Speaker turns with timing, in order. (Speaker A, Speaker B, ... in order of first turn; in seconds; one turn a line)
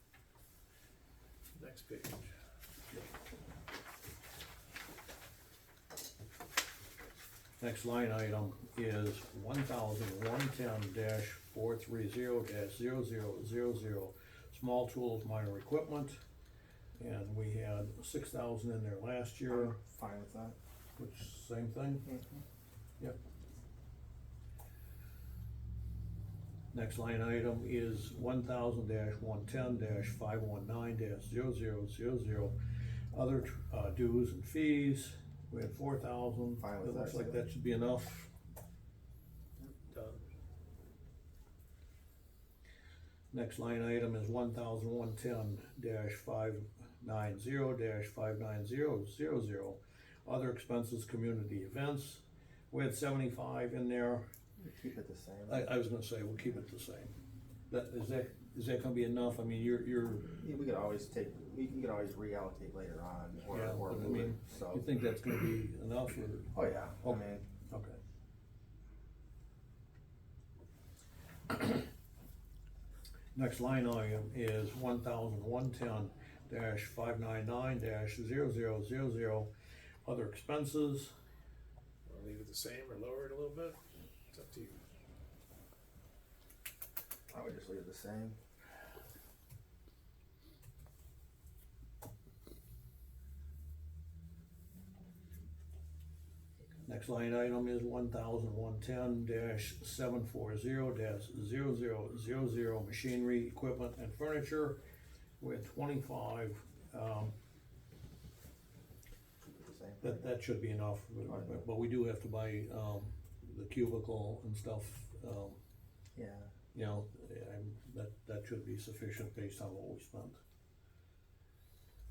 Speaker A: 1.6-2.3
Speaker B: 7.6-16.2
Speaker B: 17.0-19.8
Speaker C: 19.5-20.6
Speaker B: 21.0-22.1
Speaker C: 22.1-22.4
Speaker B: 26.7-32.6
Speaker B: 33.1-38.3
Speaker C: 36.6-37.4
Speaker A: 39.9-40.2
Speaker B: 43.3-54.3
Speaker C: 54.6-55.7
Speaker B: 55.5-57.1
Speaker B: 57.7-60.3
Speaker C: 60.4-64.8
Speaker B: 63.5-68.0
Speaker C: 66.5-67.5
Speaker B: 73.3-79.5
Speaker B: 80.0-81.1
Speaker A: 82.1-83.8
Speaker A: 84.3-84.8
Speaker C: 87.3-88.4
Speaker B: 96.8-104.8
Speaker B: 105.4-107.3
Speaker C: 109.6-110.3
Speaker B: 110.0-115.6
Speaker C: 111.2-111.7
Speaker C: 116.2-116.5
Speaker B: 116.7-120.4